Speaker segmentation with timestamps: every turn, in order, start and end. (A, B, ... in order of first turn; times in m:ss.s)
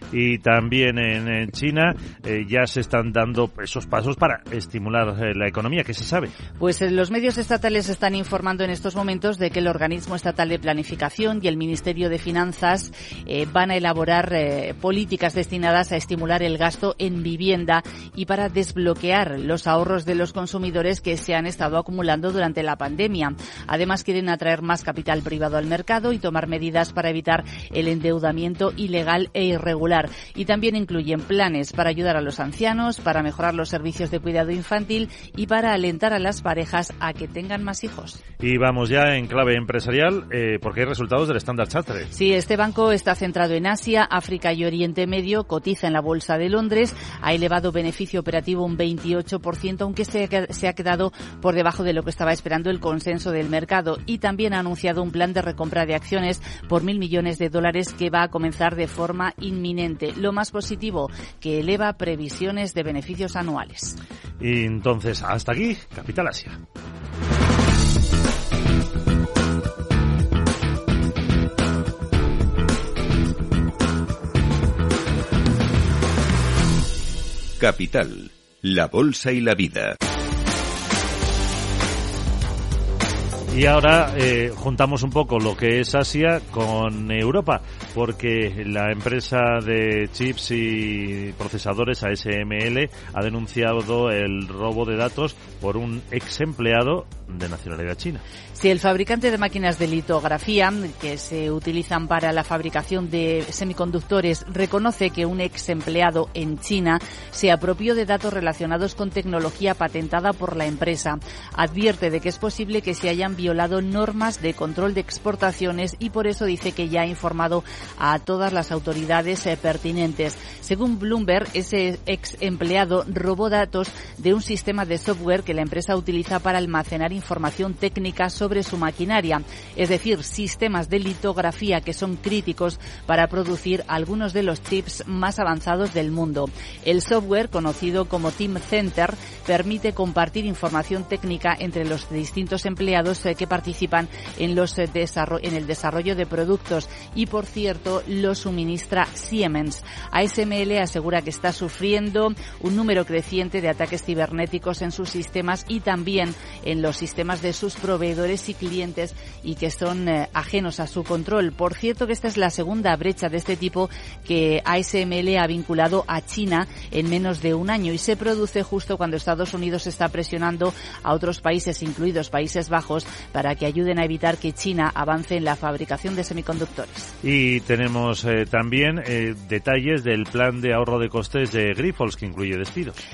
0:00.1-0:06.3 A
0:06.6-0:38.2 B
0:38.4-0:42.1 A
0:42.1-1:04.0 B
1:04.4-1:06.6 A
1:17.6-1:20.0 C
1:23.5-1:38.2 A
1:38.5-2:57.1 B
2:57.2-3:03.0 A